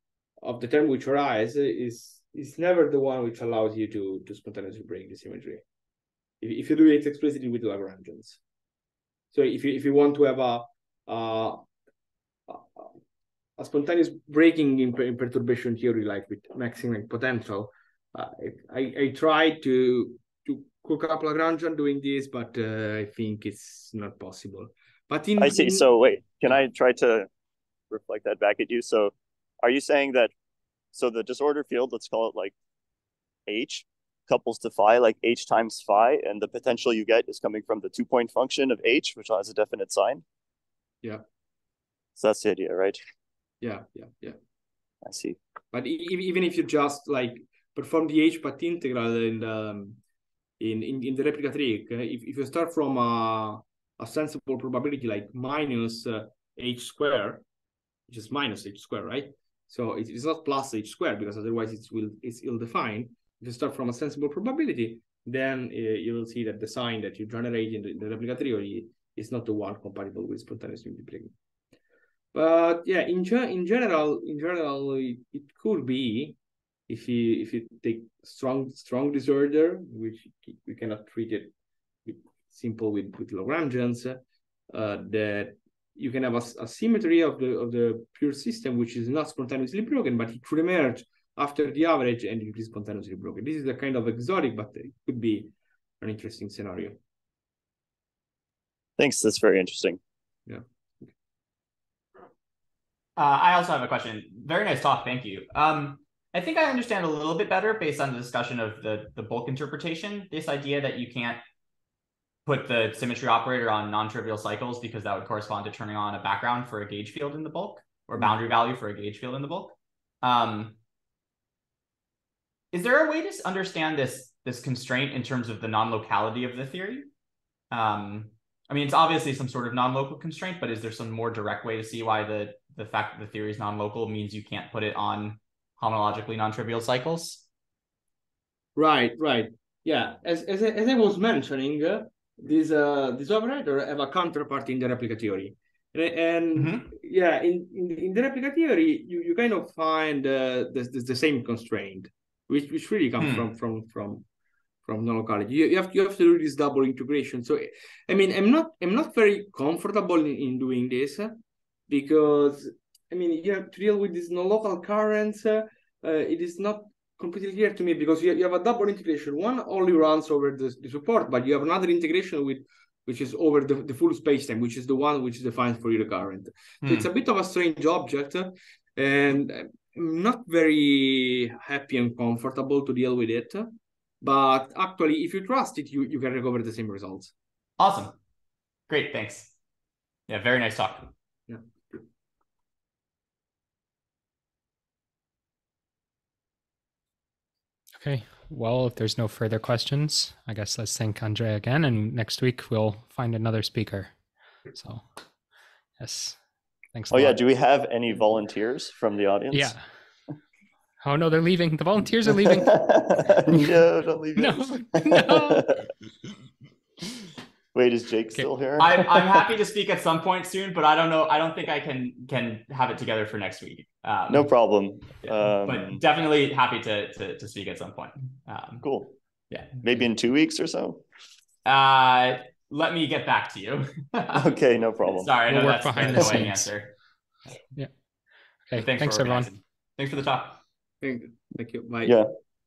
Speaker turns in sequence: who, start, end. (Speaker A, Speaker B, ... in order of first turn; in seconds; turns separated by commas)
Speaker A: 0.4-5.6, Speaker A: 6.4-8.4, Speaker A: 9.3-11.6, Speaker A: 12.5-12.9, Speaker A: 13.6-25.9, Speaker B: 25.4-27.3, Speaker B: 27.9-30.3, Speaker B: 30.9-32.5, Speaker B: 33.5-40.2, Speaker B: 42.2-43.0, Speaker A: 43.6-44.4, Speaker B: 45.0-45.4, Speaker A: 45.7-50.0, Speaker A: 50.6-57.5, Speaker A: 58.1-71.3, Speaker A: 72.3-76.4, Speaker A: 76.9-81.5, Speaker A: 82.0-97.0, Speaker B: 99.0-100.0, Speaker A: 100.5-101.1, Speaker C: 103.2-111.4, Speaker C: 112.5-120.8, Speaker C: 122.7-127.1, Speaker C: 127.7-137.4, Speaker A: 138.8-154.2, Speaker C: 146.6-146.9, Speaker C: 153.2-153.4, Speaker A: 154.8-161.4, Speaker A: 161.9-187.3, Speaker C: 176.8-177.1, Speaker C: 187.8-188.1, Speaker C: 188.9-189.5, Speaker C: 190.3-191.1, Speaker A: 191.5-192.1, Speaker D: 198.0-204.1, Speaker D: 204.7-205.1, Speaker D: 206.0-206.4, Speaker D: 206.9-207.4, Speaker B: 207.1-209.7, Speaker D: 209.5-209.8, Speaker D: 211.0-213.4, Speaker B: 212.5-215.8, Speaker D: 214.4-215.8, Speaker B: 217.7-219.2, Speaker C: 218.8-224.5, Speaker B: 224.3-226.0, Speaker C: 225.2-228.8, Speaker B: 228.8-229.1, Speaker C: 229.5-229.8, Speaker B: 229.8-231.0, Speaker C: 231.6-234.5, Speaker B: 234.3-235.3, Speaker C: 235.1-236.9, Speaker D: 235.5-236.7, Speaker D: 238.7-239.5, Speaker C: 238.8-240.6, Speaker A: 241.0-242.2, Speaker B: 242.1-242.3